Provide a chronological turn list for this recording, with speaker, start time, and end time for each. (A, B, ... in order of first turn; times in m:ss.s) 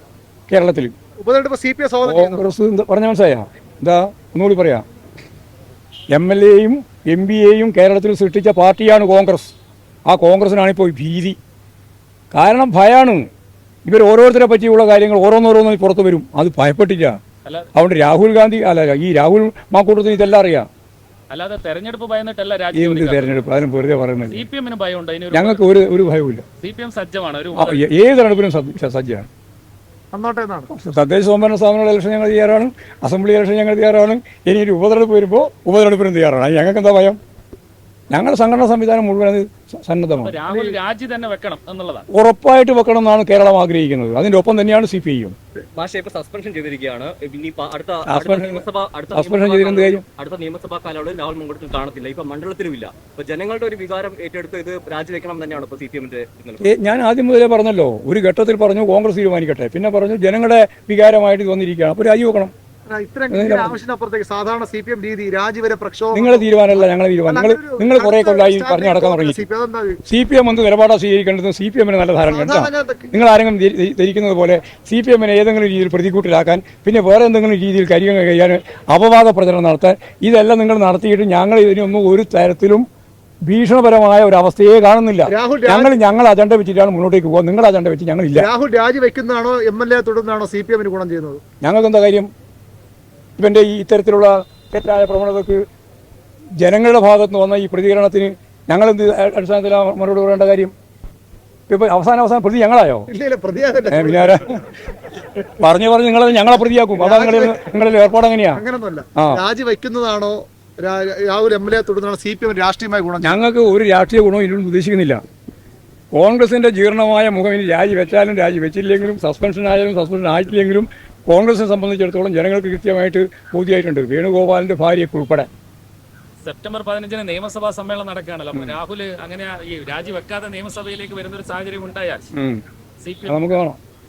0:00.5-0:00.9 A
0:01.2-0:02.4 B
0:02.0-0:04.8 A
0:06.1-0:09.5 A
0:10.1-0:11.4 A
0:12.3-0:13.3 A
0:13.8-0:17.2 A
0:17.4-0:17.7 C
0:17.7-0:20.7 A
0:21.3-0:23.5 C
0:22.7-0:24.4 A
0:24.3-0:25.6 C
0:25.3-0:26.4 A
0:26.6-0:27.8 C
0:27.5-0:29.3 A
0:30.1-0:30.7 B
0:30.7-0:37.2 A
0:38.1-0:40.4 A
0:40.1-0:42.0 C
0:42.1-0:45.3 A
0:45.7-0:56.7 D
0:48.0-0:50.0 A
0:56.6-1:02.5 A
1:02.9-1:10.0 B
1:03.3-1:03.8 A
1:06.1-1:09.4 A
1:10.1-1:22.8 A
1:12.2-1:13.2 B
1:23.4-1:28.5 A
1:25.3-1:26.0 B
1:28.4-1:31.4 B
1:31.6-1:32.3 A
1:33.4-1:35.6 A
1:36.6-1:40.7 A
1:41.7-1:43.1 A
1:43.1-1:44.6 B
1:43.9-1:44.6 A
1:45.6-1:48.6 A
1:46.9-1:47.6 B
1:48.5-1:53.4 B
1:49.2-1:49.4 A
1:53.2-1:55.2 A
1:56.1-2:05.5 A
2:06.4-2:12.3 C
2:08.5-2:08.8 A
2:12.3-2:12.6 A
2:13.0-2:13.5 C
2:13.2-2:13.8 A